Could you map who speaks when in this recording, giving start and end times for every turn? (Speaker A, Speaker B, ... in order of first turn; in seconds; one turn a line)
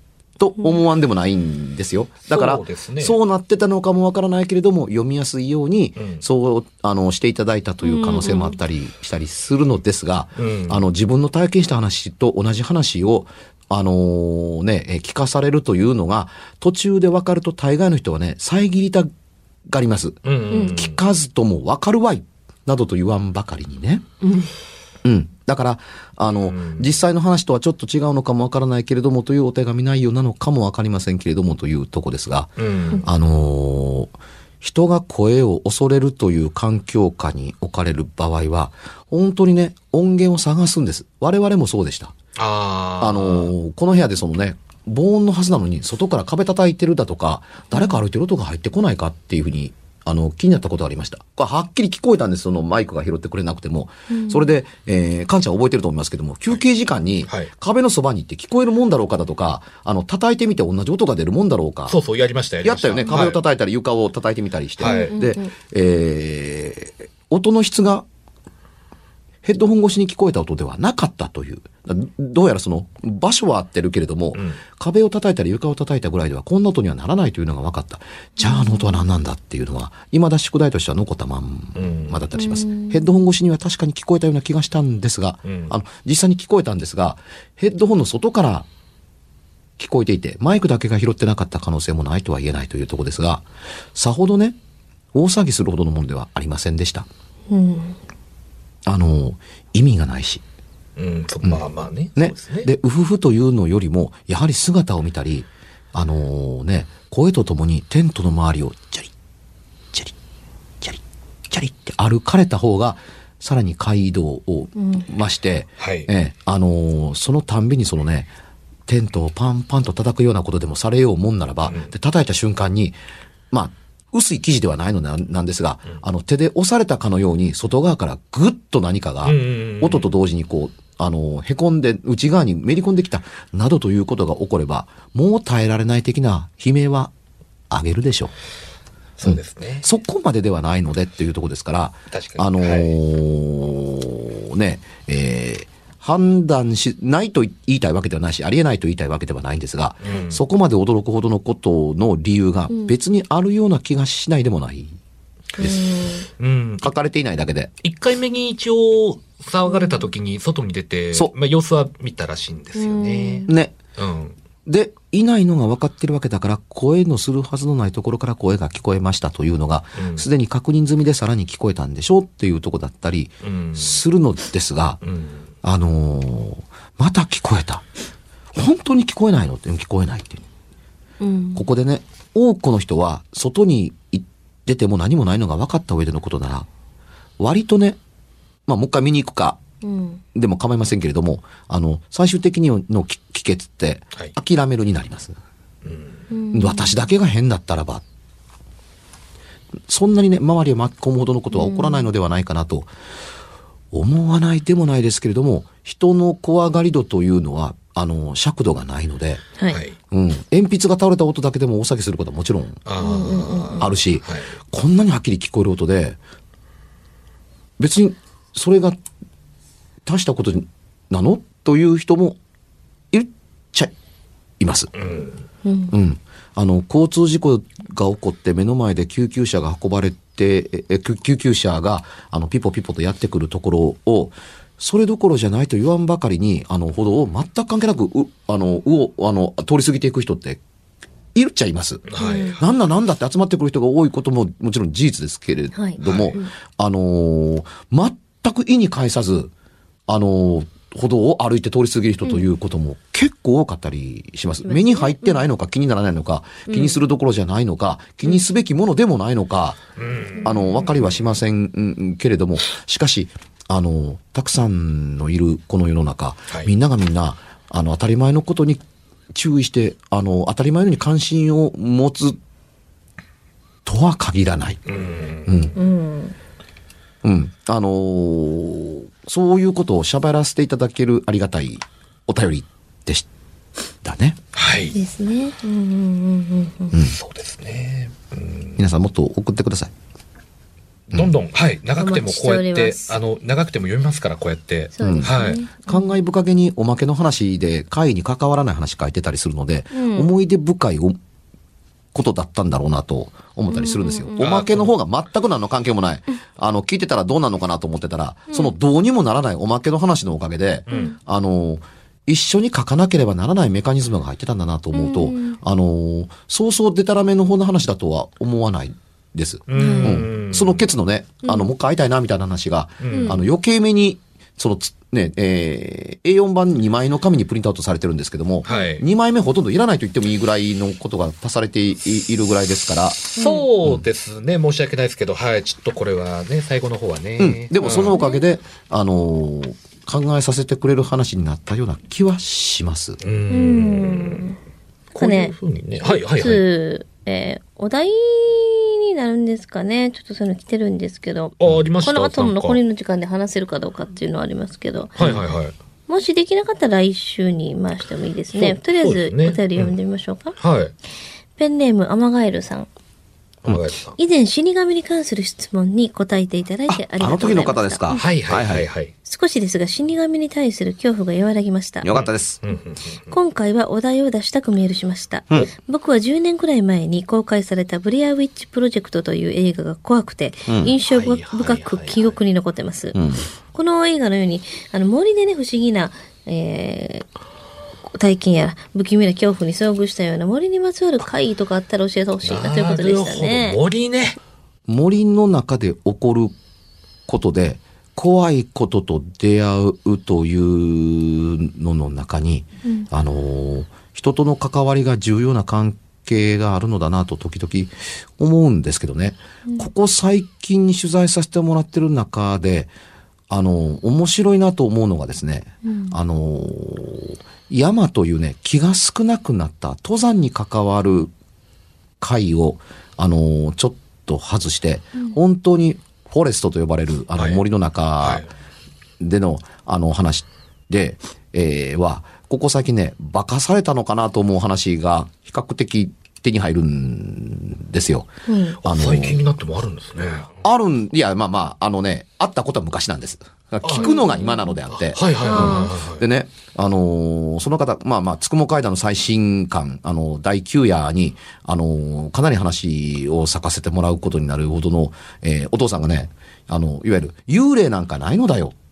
Speaker A: 0.4-19.1
Speaker B: 2.2-3.2
Speaker B: 6.0-6.2
Speaker C: 7.8-8.6
Speaker B: 10.4-10.8
Speaker A: 19.7-24.0
Speaker B: 20.2-21.0
Speaker C: 20.5-20.8
Speaker C: 24.2-24.5
Speaker A: 25.0-42.1
Speaker B: 26.3-26.9
Speaker B: 32.6-33.0
Speaker B: 42.4-43.5
Speaker A: 43.0-62.0
Speaker C: 47.7-48.0
Speaker C: 54.1-54.5
Speaker B: 61.9-63.4
Speaker A: 62.6-68.0
Speaker B: 64.8-65.1
Speaker C: 64.8-65.5
Speaker A: 69.4-88.7
Speaker B: 74.3-74.6
Speaker C: 78.4-79.0
Speaker B: 81.8-82.2
Speaker C: 82.3-83.0
Speaker B: 85.4-85.7
Speaker A: 89.8-94.6
Speaker A: 95.1-97.1
Speaker C: 97.5-98.0
Speaker A: 98.8-100.4
Speaker B: 101.0-102.7
Speaker A: 102.2-109.1
Speaker A: 110.8-118.3
Speaker C: 114.8-115.0
Speaker B: 115.8-116.1
Speaker A: 118.9-123.0
Speaker B: 121.6-121.9
Speaker A: 123.5-137.1
Speaker B: 129.2-130.1
Speaker A: 137.7-138.3
Speaker B: 139.2-139.9
Speaker A: 139.2-155.0
Speaker B: 142.1-142.9
Speaker B: 150.0-150.4
Speaker C: 155.6-156.3
Speaker B: 156.4-156.9
Speaker A: 156.8-157.7
Speaker B: 157.8-164.3
Speaker C: 159.7-160.1
Speaker C: 162.8-163.5
Speaker A: 163.5-163.8
Speaker A: 164.7-175.0
Speaker B: 170.0-170.3
Speaker B: 173.4-174.0
Speaker B: 175.0-175.4
Speaker A: 175.6-177.8
Speaker A: 178.5-180.4
Speaker C: 181.2-181.7
Speaker A: 181.5-186.7
Speaker A: 187.4-188.0
Speaker A: 188.7-189.6
Speaker C: 189.8-190.2
Speaker A: 190.3-195.4
Speaker B: 195.8-196.2
Speaker C: 196.3-196.9
Speaker A: 196.5-198.0
Speaker A: 199.9-202.9
Speaker C: 201.5-202.1
Speaker A: 203.9-209.4
Speaker B: 209.7-209.9
Speaker A: 210.1-212.8
Speaker B: 212.8-214.5
Speaker C: 213.0-213.9
Speaker A: 213.8-216.2
Speaker A: 217.8-219.0
Speaker A: 220.0-222.4
Speaker A: 223.1-223.9
Speaker A: 224.6-224.9
Speaker B: 225.0-225.4
Speaker C: 225.6-225.9
Speaker A: 225.9-240.6
Speaker A: 241.3-249.5
Speaker B: 242.1-242.6
Speaker C: 242.2-242.6
Speaker C: 245.7-246.5
Speaker B: 246.0-246.4
Speaker A: 250.1-259.8
Speaker C: 254.6-255.4
Speaker C: 256.7-257.0
Speaker B: 260.0-260.5
Speaker A: 260.4-268.8
Speaker C: 260.4-260.8
Speaker A: 269.3-272.4
Speaker A: 273.8-274.8
Speaker B: 274.9-275.7
Speaker A: 275.4-275.7
Speaker C: 275.7-276.4
Speaker A: 277.2-283.2
Speaker A: 284.0-284.4
Speaker B: 284.5-284.9
Speaker C: 284.9-286.9
Speaker A: 286.9-287.2
Speaker B: 287.0-288.8
Speaker A: 288.8-289.9
Speaker B: 291.1-295.6
Speaker C: 292.0-293.2
Speaker C: 294.9-296.1
Speaker A: 295.0-295.3
Speaker A: 295.9-301.2
Speaker C: 299.9-300.3
Speaker A: 302.1-334.0
Speaker C: 303.7-304.4
Speaker B: 304.4-304.9
Speaker C: 310.9-311.2
Speaker C: 314.9-315.6
Speaker B: 319.7-320.9
Speaker C: 319.7-320.2
Speaker C: 321.4-321.7
Speaker B: 323.0-323.4
Speaker C: 323.1-323.4
Speaker B: 328.6-329.0
Speaker B: 333.4-338.2
Speaker C: 333.4-333.6
Speaker A: 337.4-343.2
Speaker C: 337.8-338.4
Speaker B: 343.2-344.4
Speaker C: 343.5-344.6
Speaker B: 345.1-346.6
Speaker C: 345.2-355.2
Speaker B: 351.6-352.8
Speaker B: 355.2-355.7
Speaker C: 356.1-360.6
Speaker B: 358.5-359.9
Speaker B: 360.6-360.9
Speaker C: 361.6-362.9
Speaker B: 363.6-364.2
Speaker C: 364.2-368.2
Speaker A: 366.9-368.9
Speaker B: 368.1-369.1
Speaker C: 369.2-372.1
Speaker A: 372.0-372.6
Speaker B: 372.1-373.2
Speaker C: 373.3-383.2
Speaker A: 380.7-380.9
Speaker B: 381.1-382.3
Speaker A: 383.1-383.4
Speaker C: 383.7-387.3
Speaker C: 388.1-393.8
Speaker B: 392.4-394.4
Speaker A: 394.9-396.5
Speaker A: 397.3-412.9
Speaker A: 413.5-421.3
Speaker C: 415.8-416.1
Speaker A: 422.2-428.4
Speaker B: 428.2-428.5
Speaker A: 429.2-438.3
Speaker C: 438.5-438.8
Speaker A: 438.8-439.4
Speaker B: 438.8-440.5
Speaker A: 440.6-458.7
Speaker B: 443.8-444.2
Speaker C: 444.0-444.6
Speaker B: 444.9-446.2
Speaker C: 445.4-445.9